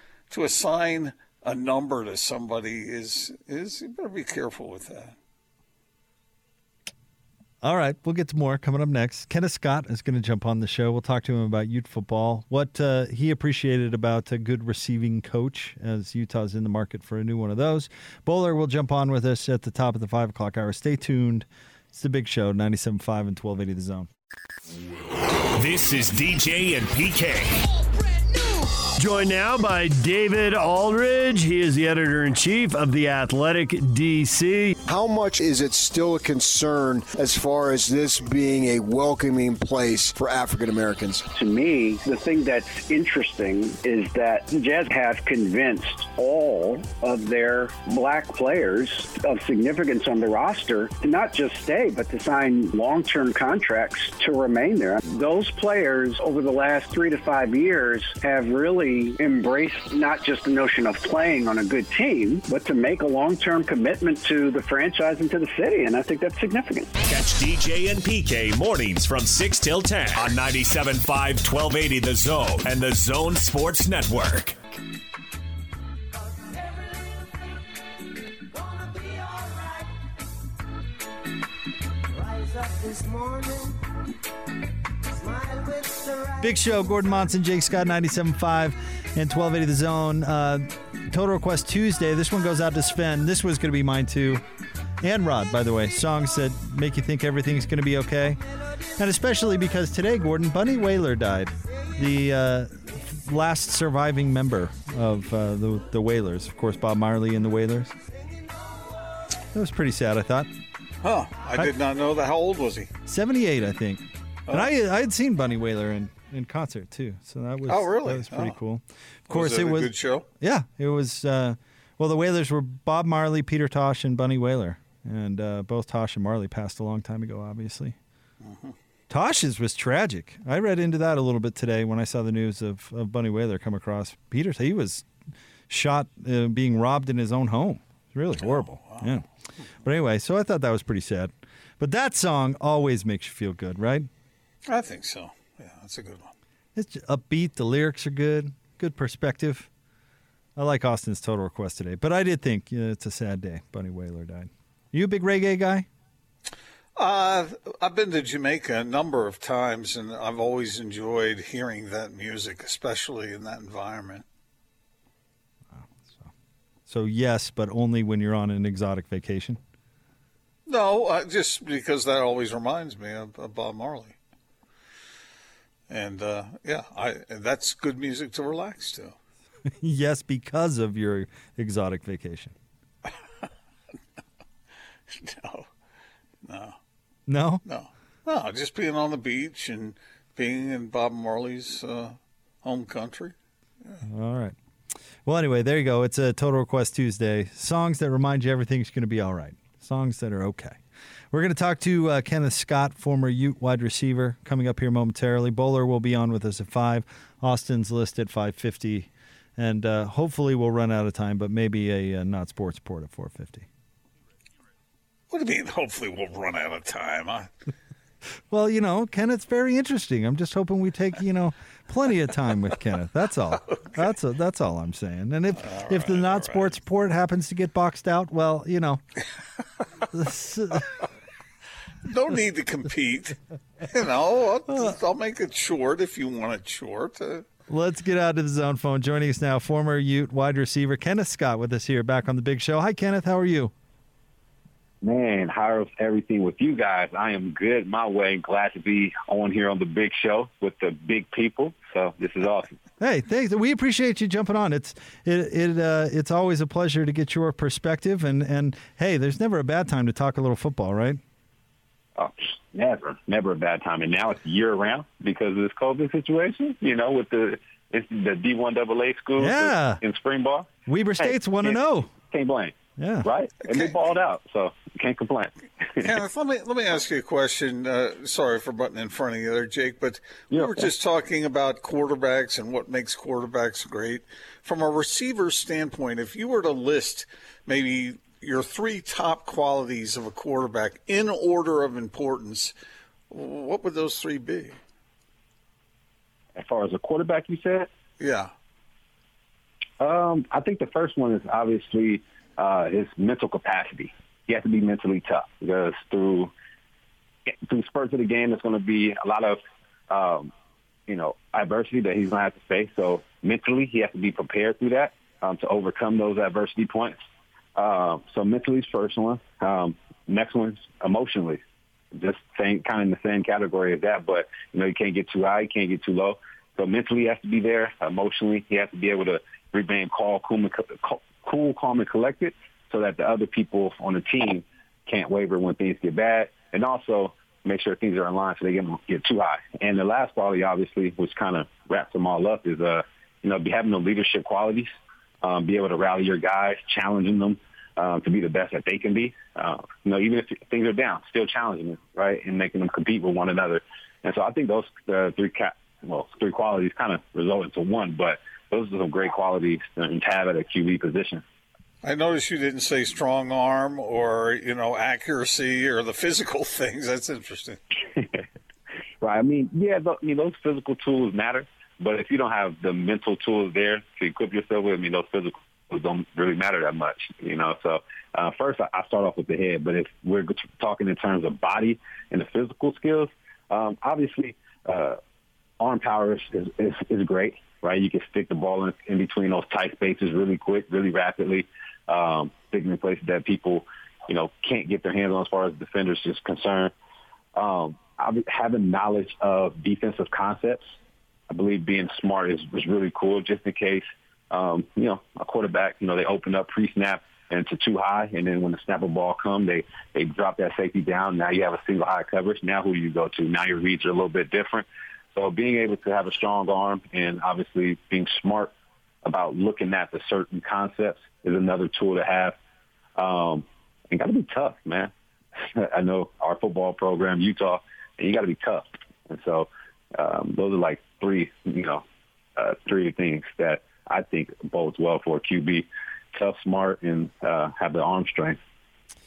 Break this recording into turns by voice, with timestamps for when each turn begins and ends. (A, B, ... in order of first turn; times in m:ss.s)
0:00.3-0:05.1 A
0:07.6-0:24.1 B
0:25.5-0:27.6 C
0:29.0-0:34.7 D
0:34.8-0:41.3 E
0:41.3-1:06.9 F
1:07.0-1:14.6 C
1:26.4-1:34.4 B
1:35.0-1:38.4 B
1:39.0-1:47.9 B
1:49.5-1:50.5 B
1:51.0-1:52.9 A
1:53.1-2:08.0 B
1:57.7-1:58.6 A
1:59.3-2:00.2 A
2:08.4-2:08.7 A
2:09.1-2:15.0 B
2:15.7-2:19.2 B
2:18.4-2:19.1 A
2:19.8-2:24.1 B
2:24.6-2:26.3 A
2:26.8-2:29.7 B
2:30.6-2:35.9 B
2:37.0-2:44.2 A
2:45.7-2:46.3 B
2:46.9-2:49.6 B
2:50.7-2:54.1 A
2:55.9-2:59.2 A
2:59.7-3:02.5 B
3:05.1-3:05.7 A
3:06.4-3:06.8 A
3:07.3-3:07.6 B
3:07.6-3:13.3 A
3:14.0-3:14.6 B
3:15.2-3:20.8 B
3:21.3-3:33.7 B
3:35.3-3:37.5 A
3:38.5-3:49.0 B
3:43.7-3:44.0 A
3:45.6-3:46.7 A
3:50.1-3:51.0 B
3:52.0-3:57.4 A
3:54.7-3:55.0 B
3:57.7-4:03.7 B
4:05.0-4:12.7 G
4:13.0-4:21.2 B
4:22.2-4:36.1 G
4:29.4-4:30.0 B
4:30.9-4:32.1 B
4:33.0-4:33.3 B
4:33.7-4:34.0 A
4:36.0-4:52.7 A
4:40.5-4:40.9 G
4:53.3-4:54.8 A
4:56.6-4:57.9 G
4:58.2-4:58.5 A
5:00.0-5:06.5 G
5:07.6-5:10.5 G
5:11.1-5:17.2 G
5:17.8-5:21.6 G
5:22.1-5:44.9 G
5:45.4-6:01.4 G
6:02.0-6:07.8 A
6:09.2-6:25.2 G
6:25.8-6:36.9 G
6:37.5-6:40.9 G
6:41.5-6:58.7 G
6:59.2-7:02.6 G
7:03.2-7:12.0 G
7:12.6-7:18.6 G